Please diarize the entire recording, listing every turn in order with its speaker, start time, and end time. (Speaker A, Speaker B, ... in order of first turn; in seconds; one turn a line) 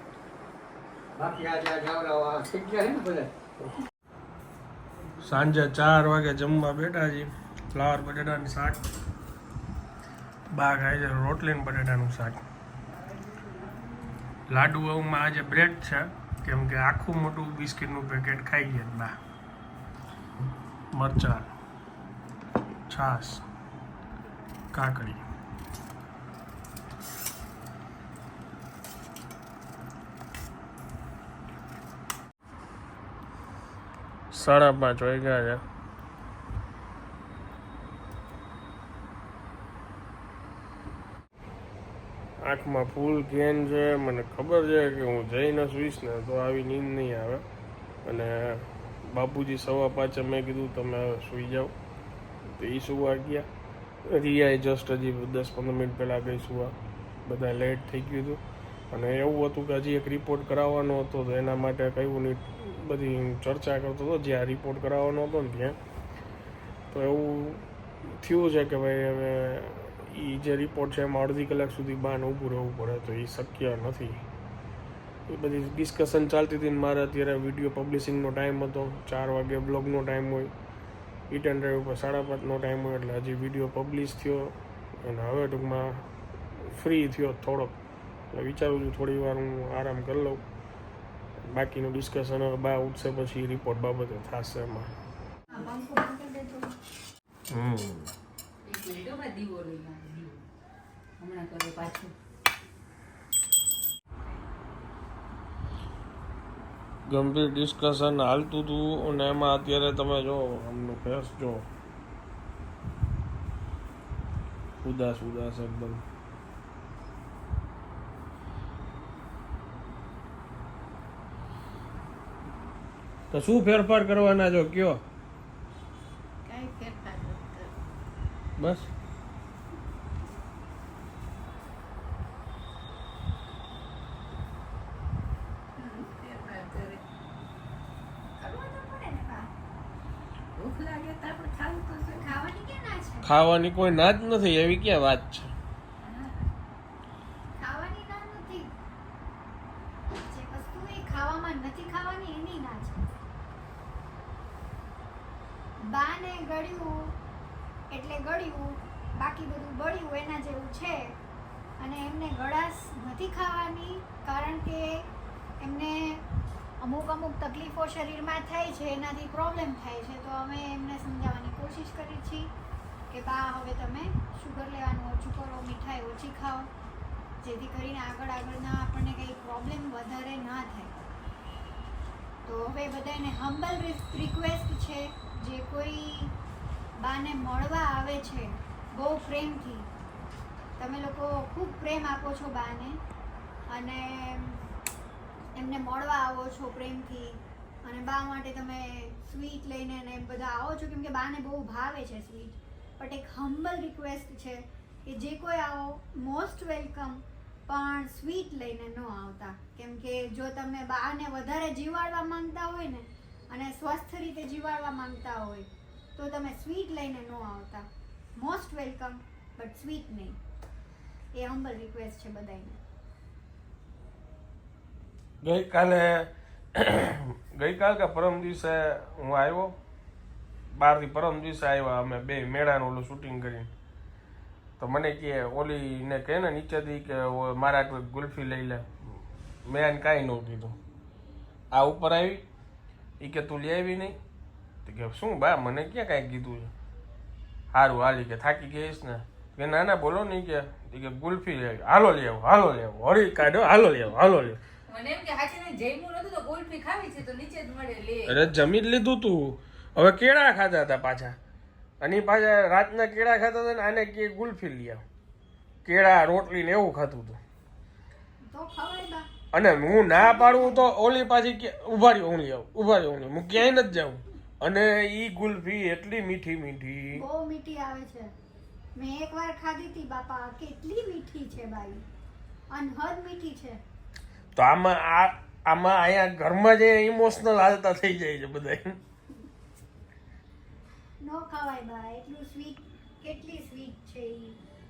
Speaker A: 1.1-3.3
Speaker B: 5.2-8.8
Speaker B: 10.5-12.4
Speaker B: 14.5-19.1
Speaker B: 20.9-21.5
Speaker B: 22.9-23.4
Speaker B: 24.7-25.2
Speaker B: 34.3-35.6
Speaker B: 42.4-47.4
Speaker B: 48.0-51.7
Speaker B: 52.5-53.5
Speaker B: 54.0-56.7
Speaker B: 57.2-65.8
Speaker B: 66.9-67.6
Speaker B: 68.2-74.2
Speaker B: 75.3-80.5
Speaker B: 81.3-86.0
Speaker B: 86.6-87.8
Speaker B: 88.3-90.4
Speaker B: 91.5-94.9
Speaker C: 95.5-96.7
Speaker B: 97.5-98.1
Speaker D: 98.6-100.4
Speaker D: 101.2-102.1
Speaker B: 107.0-111.7
Speaker B: 114.8-116.0
Speaker B: 123.3-125.0
Speaker E: 126.4-127.7
Speaker B: 128.6-128.9
Speaker E: 135.8-137.0
Speaker C: 138.4-139.5
Speaker E: 140.6-142.3
Speaker C: 142.2-143.3
Speaker B: 143.2-145.5
Speaker E: 146.0-146.3
Speaker C: 147.6-148.7
Speaker C: 150.2-153.1
Speaker C: 155.8-157.1
Speaker C: 157.9-161.1
Speaker C: 161.8-165.0
Speaker C: 165.6-166.2
Speaker C: 166.8-172.5
Speaker C: 173.1-176.7
Speaker C: 177.4-180.9
Speaker C: 182.4-186.3
Speaker C: 187.0-189.9
Speaker C: 190.8-193.0
Speaker C: 193.7-194.6
Speaker C: 195.6-217.8
Speaker C: 218.4-220.4
Speaker C: 221.3-222.8
Speaker B: 225.4-229.8
Speaker B: 230.7-233.7
Speaker B: 234.8-238.9
Speaker B: 239.6-240.8
Speaker B: 241.7-242.5
Speaker B: 243.2-244.2
Speaker B: 244.8-246.7
Speaker B: 247.7-254.6
Speaker D: 254.9-258.4
Speaker B: 258.2-261.4
Speaker B: 262.0-265.0
Speaker B: 265.8-267.4
Speaker C: 268.4-269.3
Speaker B: 269.5-277.2
Speaker C: 270.1-270.8
Speaker C: 277.1-278.3
Speaker C: 278.9-282.0
Speaker C: 282.7-283.8
Speaker B: 284.6-289.0
Speaker C: 291.2-294.6